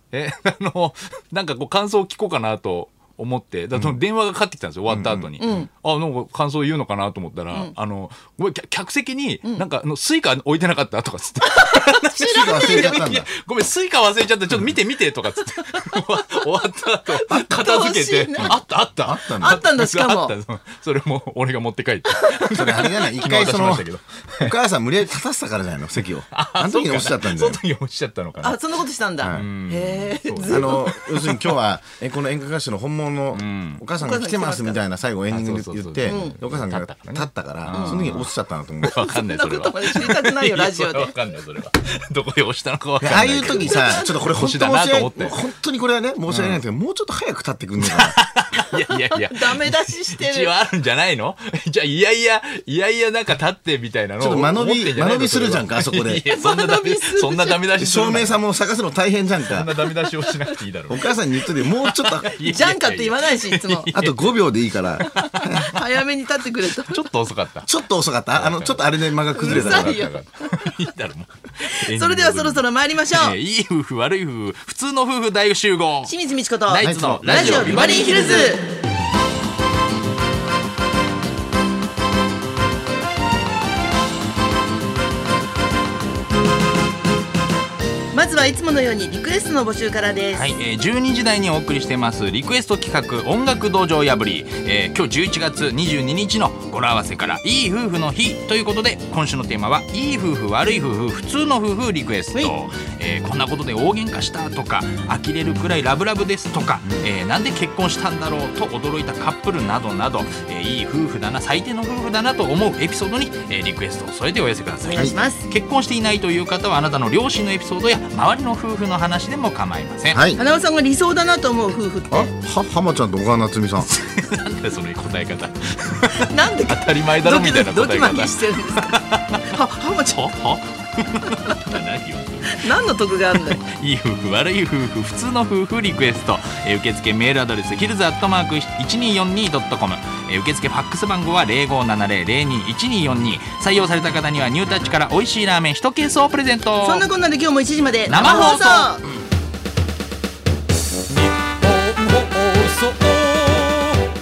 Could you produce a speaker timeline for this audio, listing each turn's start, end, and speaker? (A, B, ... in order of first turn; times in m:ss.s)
0:00.1-0:24.6 A
0:04.9-0:05.4 B
0:05.4-0:05.7 C
0:11.4-0:13.0 C
0:12.2-0:13.3 B
0:17.1-0:18.6 C
0:18.4-0:19.6 B
0:19.4-0:20.4 C
0:22.4-0:23.9 B
0:24.4-0:27.6 B
0:26.3-0:28.8 A
0:28.4-0:31.1 C
0:29.2-0:29.5 B
0:29.3-0:31.5 A
0:30.4-0:39.0 B
0:33.3-0:33.8 A
0:34.0-0:34.8 C
0:35.3-0:45.4 A
0:36.0-0:36.4 C
0:37.7-0:38.0 C
0:38.8-0:41.1 C
0:43.0-0:48.2 B
0:43.4-0:44.3 C
0:46.3-0:46.6 A
0:47.8-0:58.4 A
0:48.7-0:50.5 C
0:54.2-0:56.2 B
0:56.2-0:57.7 C
0:57.8-0:59.7 B
0:59.4-1:05.7 A
1:00.9-1:02.4 B
1:02.4-1:03.9 C
1:03.9-1:05.8 B
1:05.0-1:07.0 C
1:06.6-1:07.7 A
1:07.6-1:10.0 B
1:08.3-1:16.1 A
1:09.3-1:10.7 C
1:11.6-1:13.4 C
1:16.0-1:18.7 C
1:16.7-1:18.6 A
1:16.8-1:17.7 B
1:28.1-1:30.5 C
1:30.3-2:00.2 A
1:54.8-1:55.4 C
2:00.1-2:00.4 B
2:00.4-2:02.3 C
2:02.1-2:03.9 B
2:03.8-2:27.1 A
2:06.2-2:10.2 C
2:12.5-2:13.6 C
2:26.8-2:29.0 C
2:28.1-2:29.1 A
2:31.9-2:33.7 A